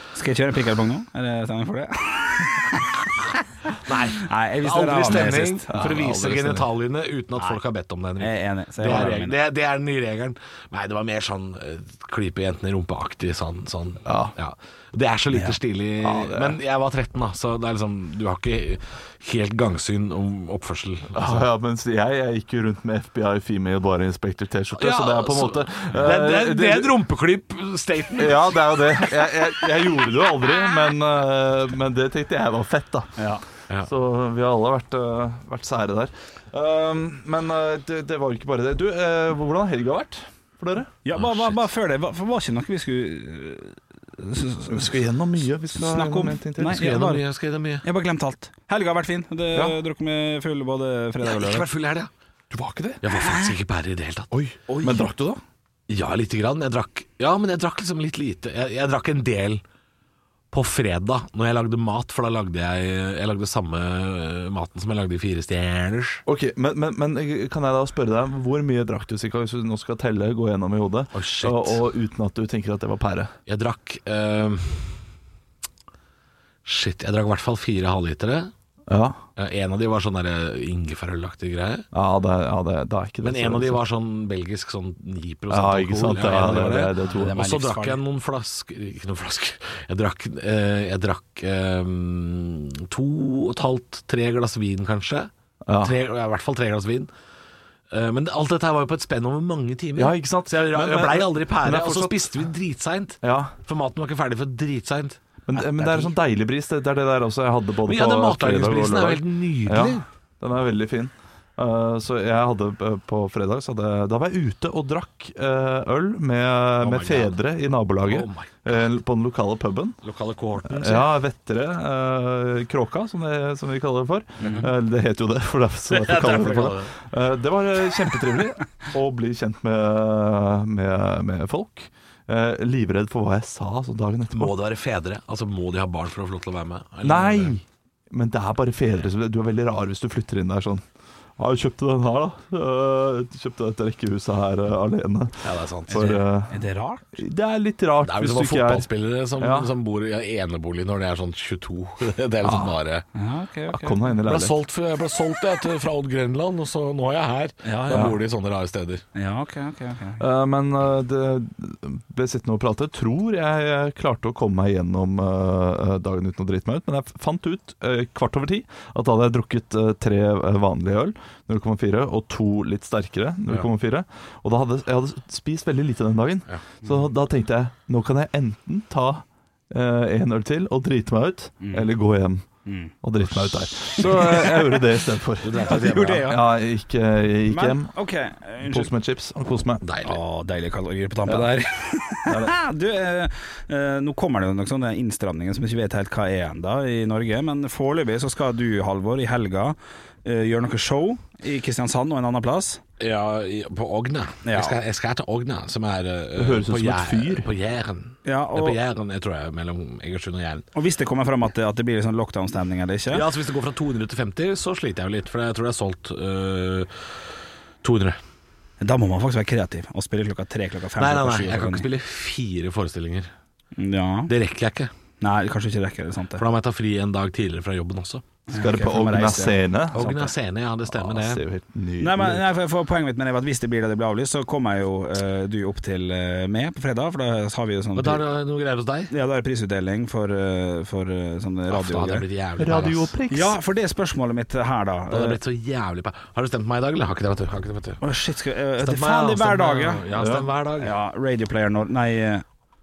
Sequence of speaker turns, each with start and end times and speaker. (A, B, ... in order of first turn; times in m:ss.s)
0:00.2-0:03.0 A
0:03.8-0:21.5 B
0:04.2-0:05.7 A
0:05.0-0:06.7 C
0:08.2-0:09.4 A
0:14.0-0:14.3 C
0:16.0-0:16.6 C
0:21.1-0:26.9 C
0:24.8-0:30.4 B
0:28.2-0:33.2 C
0:33.2-0:33.4 A
0:33.8-0:40.9 C
0:41.0-0:44.9 A
0:41.1-0:41.6 B
0:44.6-0:47.0 C
0:45.7-0:47.2 A
0:46.7-0:47.8 B
0:47.8-0:51.7 A
0:51.2-0:52.1 B
0:52.5-0:53.0 C
0:53.0-0:54.5 B
0:53.1-0:53.5 A
0:54.3-0:55.4 C
0:54.7-0:55.1 A
0:55.9-0:59.6 B
1:00.5-1:06.2 B
1:06.2-1:13.3 C
1:11.1-1:11.8 B
1:13.5-1:15.0 B
1:16.6-1:18.5 B
1:18.9-1:19.2 C
1:19.4-1:21.9 B
1:21.9-1:23.8 C
1:23.2-1:37.1 B
1:25.5-1:27.4 C
1:27.0-1:28.0 A
1:35.6-1:35.9 C
1:37.9-1:45.2 B
1:40.0-1:42.3 C
1:43.2-1:43.5 C
1:45.5-2:00.0 C
1:45.6-1:46.1 A
1:47.8-1:50.0 B
1:56.8-1:57.4 B
1:58.0-1:58.8 B
2:00.0-2:01.1 B
2:00.7-2:14.5 C
2:04.4-2:04.7 B
2:04.4-2:04.7 A
2:05.9-2:06.9 B
2:14.4-2:17.6 B
2:17.0-2:20.8 C
2:21.4-2:26.6 C
2:25.4-2:26.2 B
2:25.9-2:27.0 A
2:27.1-2:29.7 C
2:28.0-2:33.0 B
2:32.4-2:32.7 C
2:33.1-2:34.1 A
2:33.7-2:34.6 C
2:34.2-2:39.0 B
2:37.6-2:38.2 A
2:37.9-2:38.2 C
2:39.1-2:40.2 A
2:40.2-3:02.5 C
3:01.6-3:01.9 A
3:02.6-3:04.8 A
3:03.0-3:07.9 C
3:05.4-3:06.4 B
3:05.6-3:06.4 A
3:07.5-3:08.9 A
3:08.6-3:09.8 C
3:09.8-3:10.2 B
3:10.0-3:22.8 A
3:11.3-3:11.5 C
3:12.3-3:12.5 C
3:23.0-3:30.6 B
3:24.4-3:24.8 A
3:26.4-3:27.5 C
3:28.2-3:28.8 A
3:30.7-3:33.2 A
3:33.1-3:36.9 B
3:37.8-3:38.2 B
3:38.8-3:41.8 A
3:41.0-3:43.3 B
3:43.8-3:44.3 A
3:44.3-3:44.9 B
3:45.2-3:46.4 A
3:46.4-3:48.2 B
3:48.5-3:49.6 A
3:48.5-3:50.3 C
3:49.9-3:51.4 B
3:50.9-3:52.4 C
3:52.0-3:58.2 A
3:57.9-3:59.1 B
3:59.1-4:02.2 A
4:01.7-4:03.1 B
4:02.6-4:03.5 C
4:03.3-4:05.4 A
4:05.1-4:08.0 B
4:08.0-4:10.1 A
4:08.8-4:10.9 B
4:10.1-4:10.4 C
4:10.8-4:12.4 A